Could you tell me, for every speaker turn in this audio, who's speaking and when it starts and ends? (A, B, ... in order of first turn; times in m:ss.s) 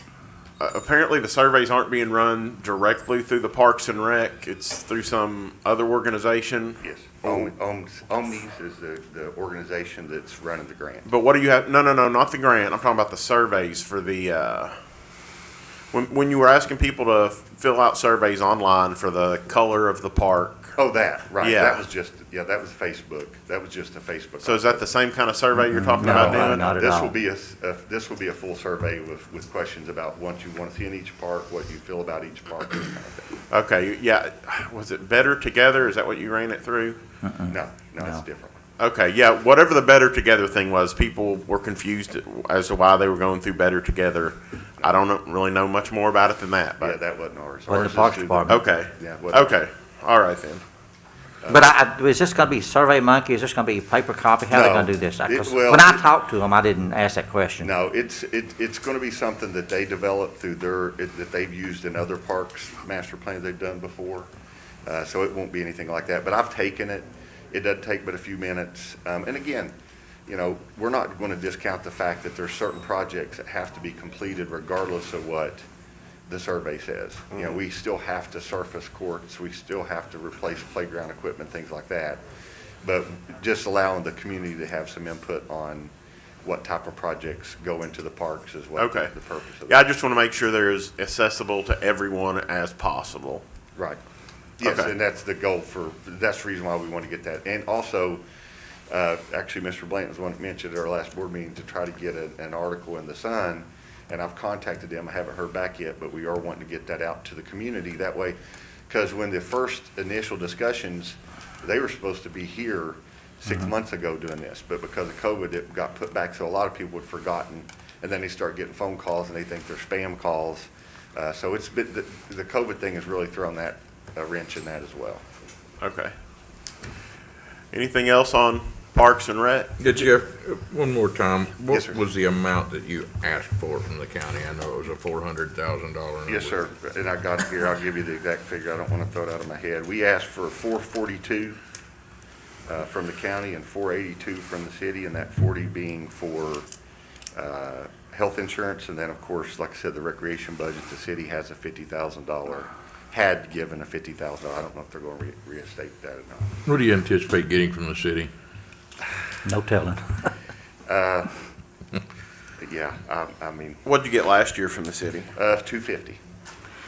0:00.6-0:07.5 A
0:06.8-0:11.1 B
0:11.1-0:14.8 A
0:15.9-0:20.7 A
0:20.8-0:24.8 B
0:21.4-0:21.8 A
0:24.4-0:26.7 A
0:25.6-0:27.2 C
0:26.0-0:33.3 B
0:33.5-0:37.0 A
0:37.2-0:38.2 C
0:37.5-0:38.6 B
0:38.8-0:47.0 A
0:46.8-0:49.6 B
0:47.7-0:48.6 C
0:48.5-0:50.6 A
0:51.4-0:51.7 B
0:51.5-0:57.7 C
0:54.5-0:56.0 B
0:57.6-1:04.3 B
1:04.8-1:09.7 B
1:10.3-1:15.6 B
1:16.3-1:22.2 B
1:22.8-1:25.9 B
1:26.4-1:29.8 B
1:28.8-1:29.1 A
1:29.7-1:33.4 A
1:34.6-1:38.2 B
1:34.6-1:34.9 A
1:38.9-1:48.4 B
1:48.9-2:05.2 B
2:05.8-2:06.1 A
2:07.7-2:09.7 A
2:09.8-2:16.6 D
2:11.7-2:12.0 B
2:16.2-2:21.6 B
2:22.7-2:26.7 B
2:27.3-2:36.6 B
2:36.6-2:38.3 D
2:39.4-2:40.1 C
2:40.9-2:41.3 B
2:42.6-2:43.8 B
2:43.8-2:45.3 A
2:45.4-2:46.2 B